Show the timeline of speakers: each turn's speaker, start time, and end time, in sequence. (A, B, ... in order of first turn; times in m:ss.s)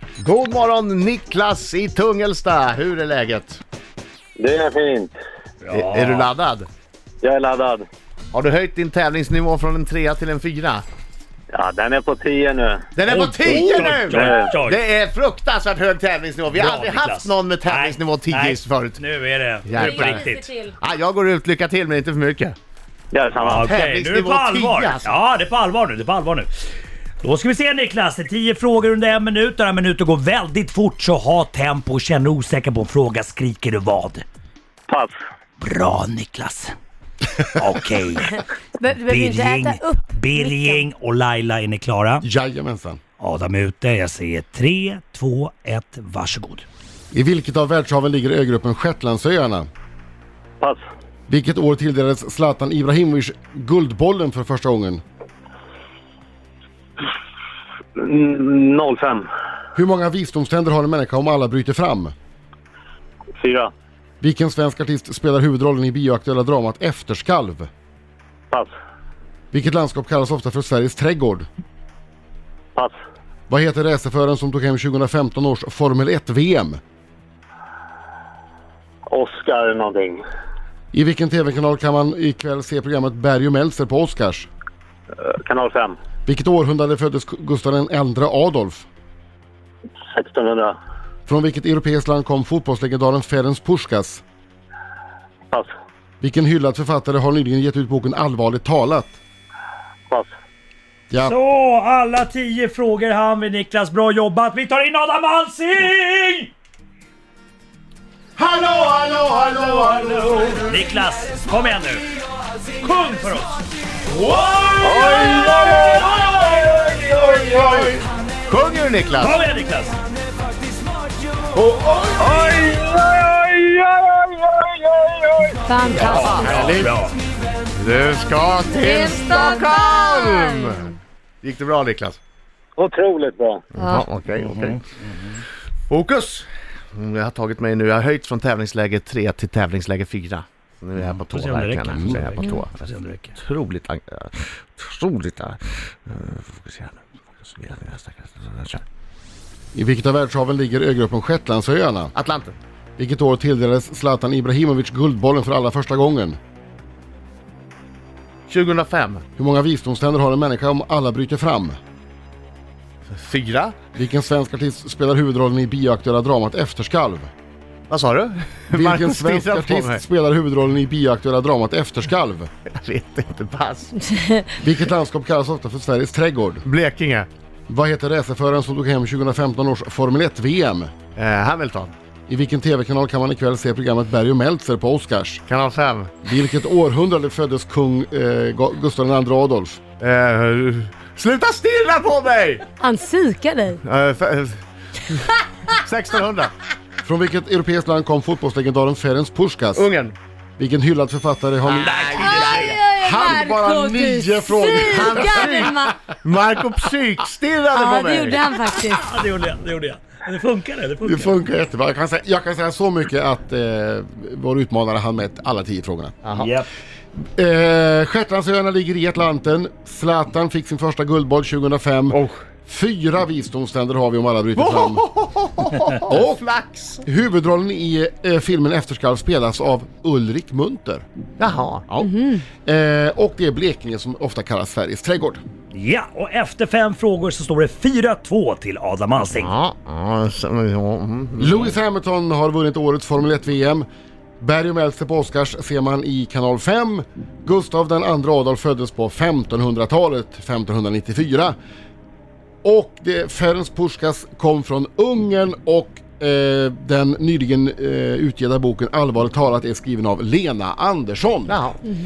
0:00.2-0:03.6 A
0:04.4-0:05.1 B
0:05.6-0:06.3 C
0:05.7-0:06.7 A
0:07.2-0:07.9 B
0:08.3-0:10.8 A
0:11.5-0:12.9 B
0:13.0-0:19.0 A
0:13.0-0:14.8 C
0:14.1-0:14.5 B
0:16.5-0:20.6 C
0:19.7-0:22.6 A
0:23.1-0:23.7 B
0:23.4-0:26.5 C
0:23.6-0:25.2 A
0:27.2-0:34.2 C
0:34.9-0:35.1 B
0:35.6-0:36.7 C
0:37.5-0:38.4 C
0:38.8-0:40.8 D
0:39.0-0:42.3 C
0:42.2-0:43.0 E
0:43.2-0:46.7 C
0:47.1-0:49.7 E
0:51.3-0:55.0 E
0:58.0-0:59.3 B
0:59.8-1:02.1 E
1:03.4-1:03.7 B
1:04.2-1:07.7 E
1:09.5-1:11.5 E
1:13.5-1:16.8 E
1:19.1-1:20.2 B
1:20.9-1:24.5 E
1:25.4-1:26.0 B
1:26.3-1:28.9 E
1:30.1-1:30.8 B
1:31.3-1:34.2 E
1:36.2-1:39.2 E
1:41.1-1:41.4 E
1:41.2-1:46.5 C
1:48.4-1:50.4 A
1:50.5-1:52.1 C
1:52.8-1:53.7 C
1:54.2-1:54.8 C
1:54.8-1:55.9 A
1:55.2-1:55.6 B
1:58.5-1:59.4 A
1:59.2-2:00.0 C
2:01.6-2:02.6 A
2:02.7-2:05.6 B
2:05.6-2:06.8 D
2:05.9-2:06.8 E
2:05.9-2:06.9 A
2:05.9-2:07.2 C
2:07.8-2:10.9 A
2:08.8-2:10.6 D
2:11.4-2:12.2 A
2:12.8-2:13.6 B
2:13.8-2:14.0 D
2:13.8-2:14.8 A
2:14.3-2:15.4 C
2:15.9-2:22.8 A
2:21.0-2:23.4 C
2:23.4-2:28.8 A
2:29.7-2:32.1 E
2:32.1-2:32.6 A
2:33.0-2:36.4 E
2:38.5-2:39.2 A
2:39.4-2:41.8 E
2:43.1-2:43.8 A
2:44.0-2:47.3 E
2:47.9-2:50.0 A
2:48.7-2:52.5 E
2:52.7-2:54.1 A
2:54.5-2:56.7 E
2:56.6-2:57.3 A
2:57.7-3:00.9 E
3:01.2-3:01.9 A
3:02.3-3:05.4 E
3:05.5-3:06.2 A
3:06.2-3:09.8 E
3:10.0-3:12.7 A
3:12.8-3:13.8 D
3:13.8-3:16.5 A
3:17.0-3:19.8 E
3:19.8-3:20.2 A
3:20.6-3:26.0 E
3:21.6-3:22.8 A
3:21.8-3:22.8 C
3:22.3-3:26.0 D
3:24.8-3:28.4 A
3:27.7-3:29.1 D
3:28.7-3:31.3 C
3:31.0-3:36.2 E
3:36.2-3:36.5 A
3:36.4-3:36.7 C
3:37.4-3:45.0 E
3:42.1-3:42.4 A
3:44.6-3:47.0 A
3:46.0-3:46.5 E
3:47.0-3:51.0 E
3:51.4-3:52.1 A
3:52.0-3:52.4 D
3:52.6-3:55.4 E
3:55.7-3:59.5 C
3:59.4-4:01.8 A
4:01.4-4:03.9 E
4:04.4-4:11.6 E
4:12.6-4:21.6 E
4:21.5-4:21.8 A